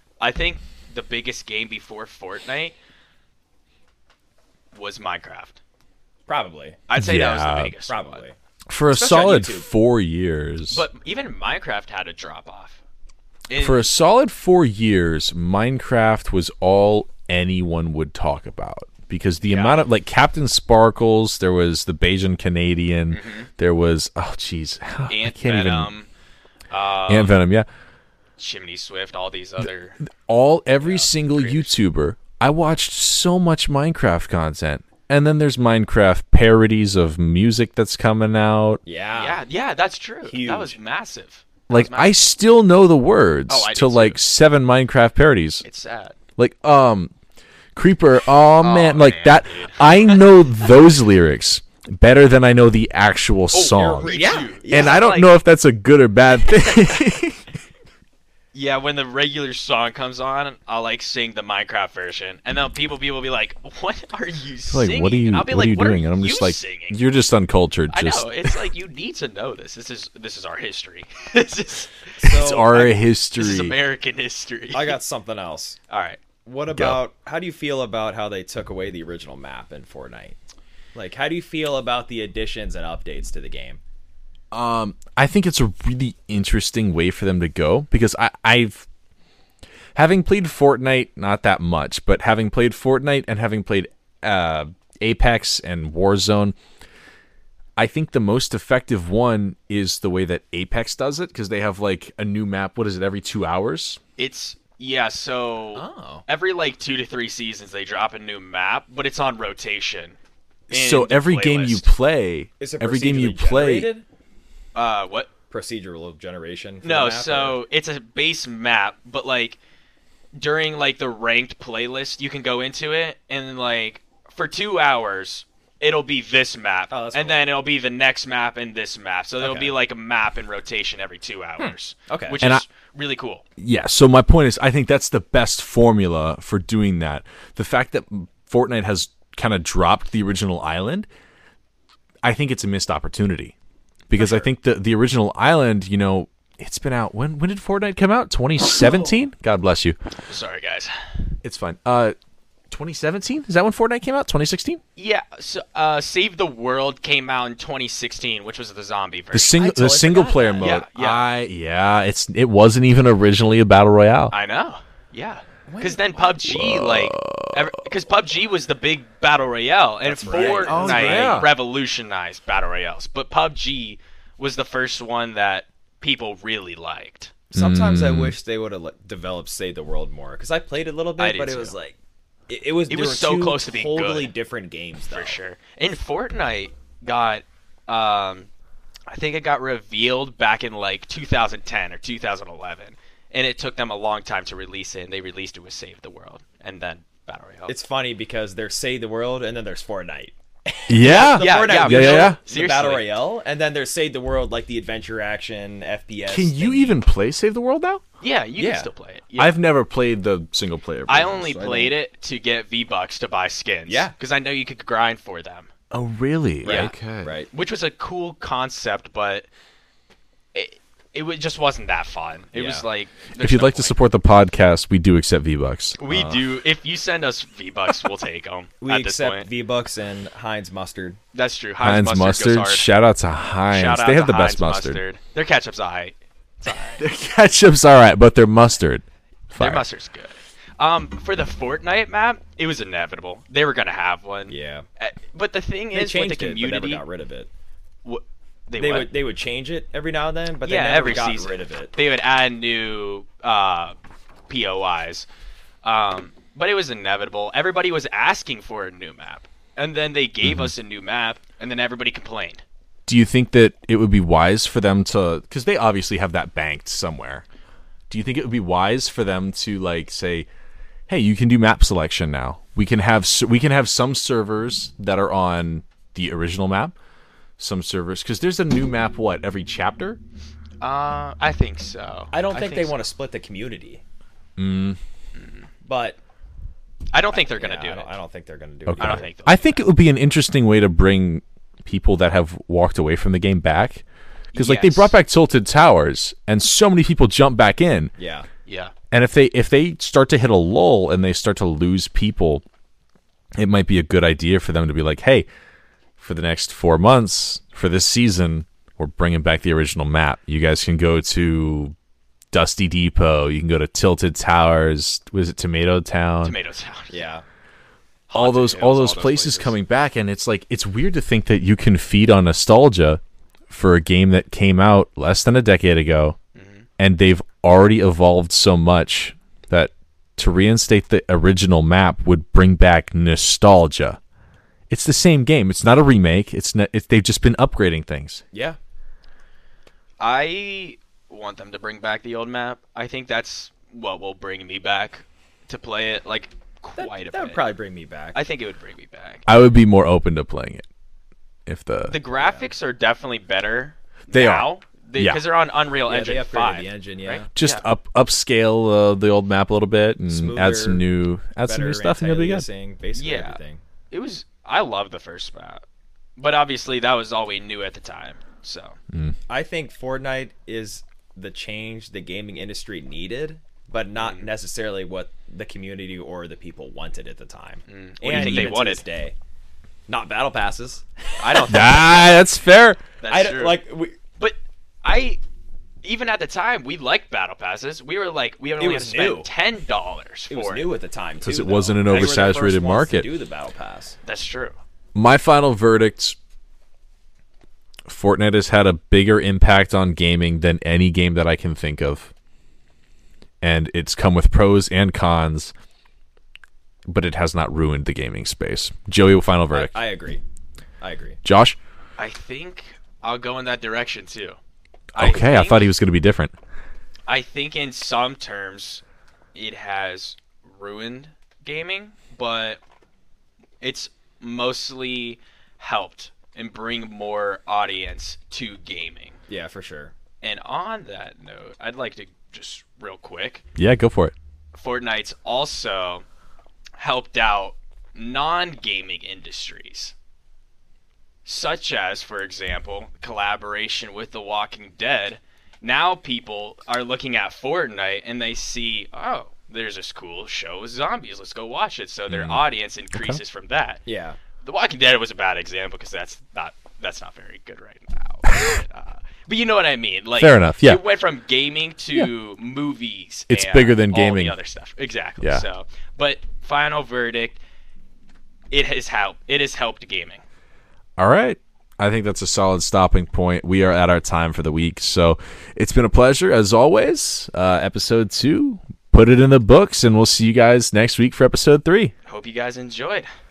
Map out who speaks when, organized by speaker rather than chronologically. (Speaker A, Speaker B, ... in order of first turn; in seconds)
Speaker A: 0.2-2.8, 4.7-5.6, 6.9-8.2, 10.7-12.8, 13.5-13.9, 19.5-19.8, 23.1-23.5, 25.1-26.1, 26.7-27.4, 28.4-30.0, 30.9-31.7, 39.1-42.2, 43.5-44.2, 45.6-46.2, 48.6-50.3, 53.5-55.3, 58.5-67.0, 67.9-71.9, 73.4-75.0, 75.9-76.2, 104.2-110.2, 110.7-111.9, 114.8-115.3, 116.8-119.6, 120.4-133.4, 144.2-144.5, 150.3-150.9, 155.0-159.6, 160.6-161.3, 164.3-177.3, 181.2-181.8, 182.9-184.3, 185.1-188.5, 189.1-197.8, 201.0-203.2, 208.2-209.6, 211.1-215.7, 216.6-216.9, 217.5-219.5, 220.5-223.9, 226.0-229.5, 231.3-232.9, 233.7-237.1, 239.6-247.0, 248.1-249.1, 250.6-253.9, 254.5-255.3, 255.8-262.6, 280.8-283.0, 285.4-285.7, 287.1-288.1, 289.0-289.9, 294.5-295.2, 298.7-298.9, 316.4-317.3, 318.3-319.8, 326.6-326.9, 340.2-347.6, 348.3-349.5, 352.0-357.9, 363.2-363.6, 364.1-365.8, 366.4-369.0, 374.2-374.5, 377.9-379.1, 381.4-382.4, 383.2-383.8, 384.4-385.4, 386.0-390.9, 394.2-394.8, 412.2-414.6, 415.1-415.9, 417.3-419.0, 419.5-422.8, 423.8-429.4, 430.4-433.6, 434.7-436.2, 437.0-440.1, 441.4-454.0, 454.6-467.6, 468.7-470.4, 482.3-483.3
Speaker B: 6.3-6.9, 7.8-8.3, 8.9-9.7, 38.9-39.4, 40.2-40.8, 53.8-55.1, 72.2-73.0, 74.7-75.8, 76.5-80.4, 81.0-83.8, 105.8-106.2, 112.6-114.1, 115.5-117.6, 126.9-127.5, 129.4-129.8, 131.6-132.4, 159.6-160.8, 165.7-166.3, 170.1-171.5, 177.5-182.0, 182.5-185.4, 197.7-207.0, 208.6-208.9, 211.6-211.9, 213.9-214.1, 216.6-217.5, 222.5-222.8, 228.8-231.2, 244.5-244.8, 245.9-247.5, 248.8-252.0, 282.3-284.0, 285.8-286.2, 287.3-289.3, 298.2-298.5, 317.1-317.4, 338.5-338.8, 347.0-348.4, 352.3-352.7, 356.1-357.5, 360.3-361.0, 361.6-363.8, 369.5-379.4, 380.1-381.7, 383.3-384.2, 388.8-389.5, 390.5-394.2, 409.7-410.4, 411.0-411.4, 429.5-430.1, 454.1-454.4
Speaker C: 7.0-7.8, 8.7-10.8, 13.6-25.9, 27.1-27.7, 30.0-38.8, 41.7-45.6, 46.4-47.1, 47.8-57.5, 64.7-68.6, 72.2-73.8, 76.7-77.0, 84.5-88.9, 90.0-96.6, 97.8-104.0, 110.7-113.9, 133.6-141.1, 142.2-143.5, 144.1-150.0, 151.4-152.2, 152.7-154.8, 159.3-164.3, 166.4-167.6, 170.3-171.5, 177.5-178.4, 200.9-202.4, 206.3-208.0, 209.4-211.8, 215.9-217.3, 223.4-226.4, 231.8-235.0, 237.0-239.9, 260.4-260.7, 263.1-267.4, 268.1-270.5, 271.1-276.9, 277.6-280.2, 284.6-285.0, 288.9-294.0, 294.6-298.1, 299.1-302.6, 303.6-305.5, 306.2-311.9, 312.5-316.5, 318.3-326.4, 327.0-334.2, 334.9-338.4, 349.5-350.9, 351.7-352.1, 354.3-355.4, 357.6-362.7, 369.1-369.4, 378.3-378.8, 381.7-383.0, 391.4-393.3, 395.1-396.4, 398.1-402.3, 403.6-405.7, 407.1-410.0, 411.4-411.8, 415.2-416.5, 433.8-434.3, 452.3-452.6, 453.1-453.4, 460.4-461.0, 463.5-464.6, 465.4-465.7, 471.2-482.1